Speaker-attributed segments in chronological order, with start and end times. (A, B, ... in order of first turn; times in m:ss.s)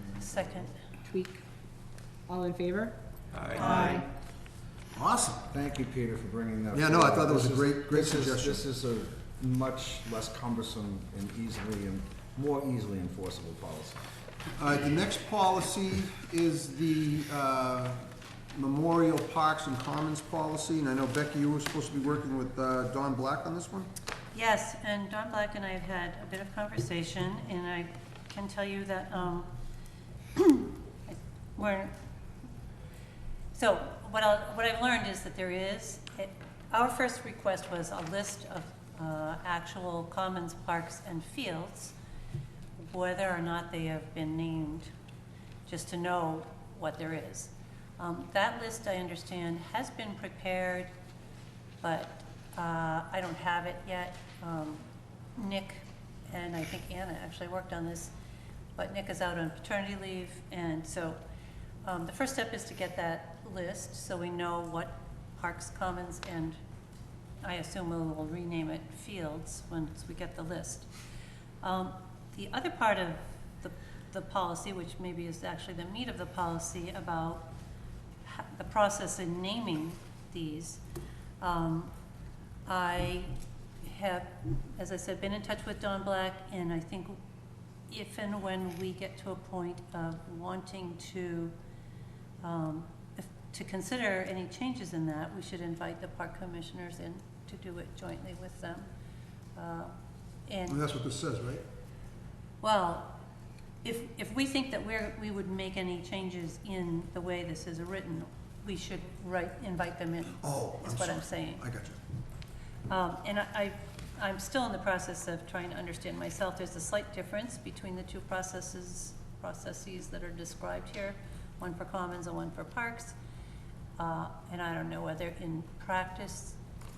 0:00.2-0:00.8 A
0:01.0-0:01.4 B
0:02.1-0:04.1 B
0:03.3-0:04.0 C
0:03.6-0:03.9 A
0:04.9-0:05.5 C
0:05.5-0:14.0 D
0:06.7-0:08.7 C
0:14.6-0:18.0 C
0:18.5-0:23.9 C
0:24.3-0:29.5 A
0:30.4-0:31.9 A
0:33.5-0:42.0 A
0:42.9-0:44.9 A
0:45.7-0:50.9 A
0:51.8-0:54.8 A
0:55.4-0:58.1 A
0:58.8-1:01.2 A
1:01.8-1:06.6 A
1:07.4-1:10.9 A
1:11.6-1:17.5 A
1:18.3-1:20.8 A
1:21.4-1:21.9 A
1:22.7-1:27.2 A
1:27.9-1:31.5 A
1:32.4-1:38.9 A
1:39.6-1:39.9 A
1:40.5-1:40.8 A
1:40.7-1:41.6 C
1:42.6-1:43.1 A
1:43.8-1:51.7 A
1:50.4-1:52.0 C
1:52.9-2:03.2 A
2:04.0-2:06.6 A